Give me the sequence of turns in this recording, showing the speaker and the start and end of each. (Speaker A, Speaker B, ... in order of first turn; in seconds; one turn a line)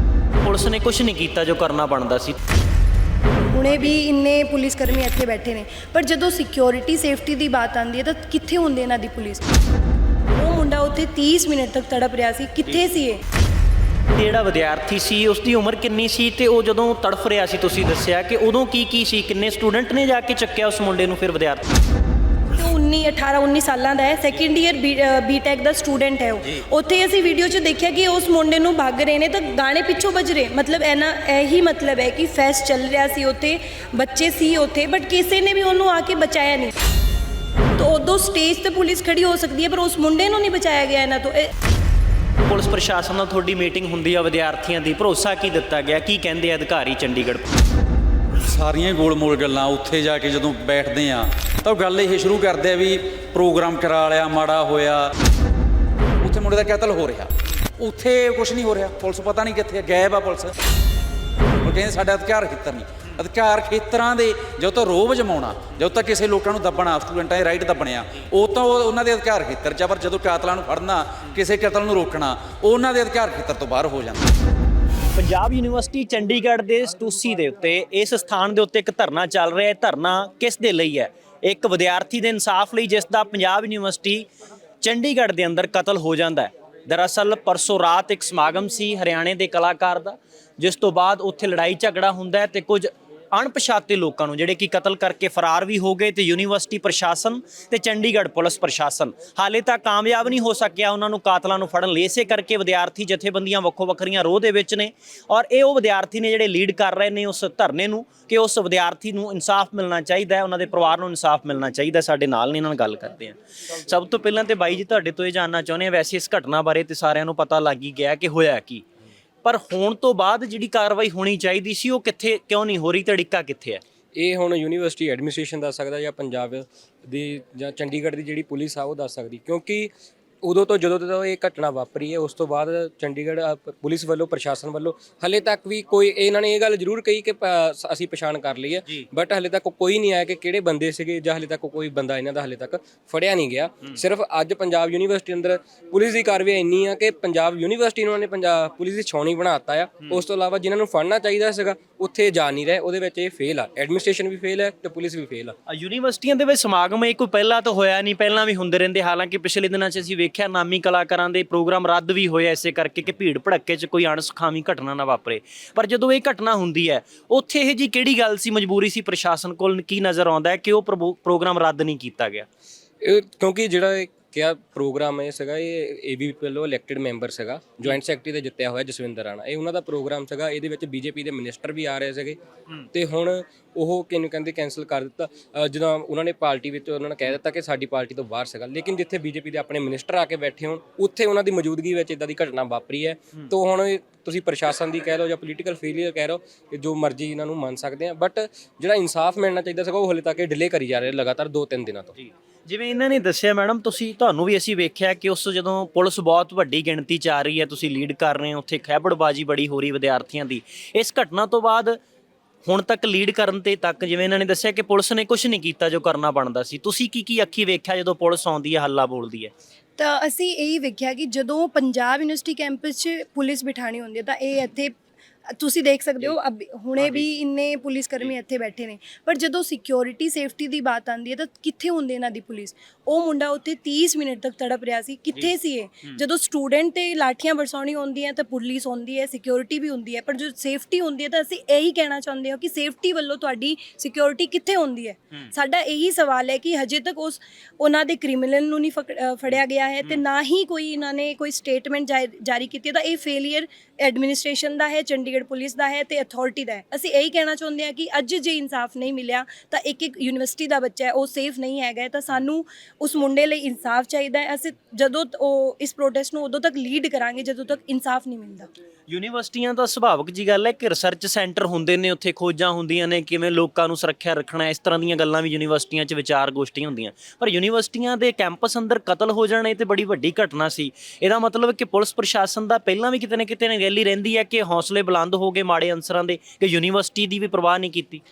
Speaker A: 0.4-2.4
Speaker B: 3.5-9.4
Speaker B: 10.3-13.2
Speaker A: 14.1-21.6
Speaker B: 22.5-36.7
Speaker B: 37.8-41.5
Speaker A: 42.5-47.5
Speaker C: 48.4-55.1
Speaker C: 56.2-60.5
Speaker C: 61.6-74.2
Speaker A: 75.1-84.3
Speaker A: 84.8-118.8
Speaker A: 119.4-123.8
Speaker D: 124.2-155.5
Speaker A: 155.7-172.5
Speaker D: 173.0-182.4
Speaker D: 182.9-202.2
Speaker A: 202.2-212.0
Speaker A: 212.7-219.5
Speaker B: 220.0-224.9
Speaker B: 225.5-268.7
Speaker A: 269.1-288.2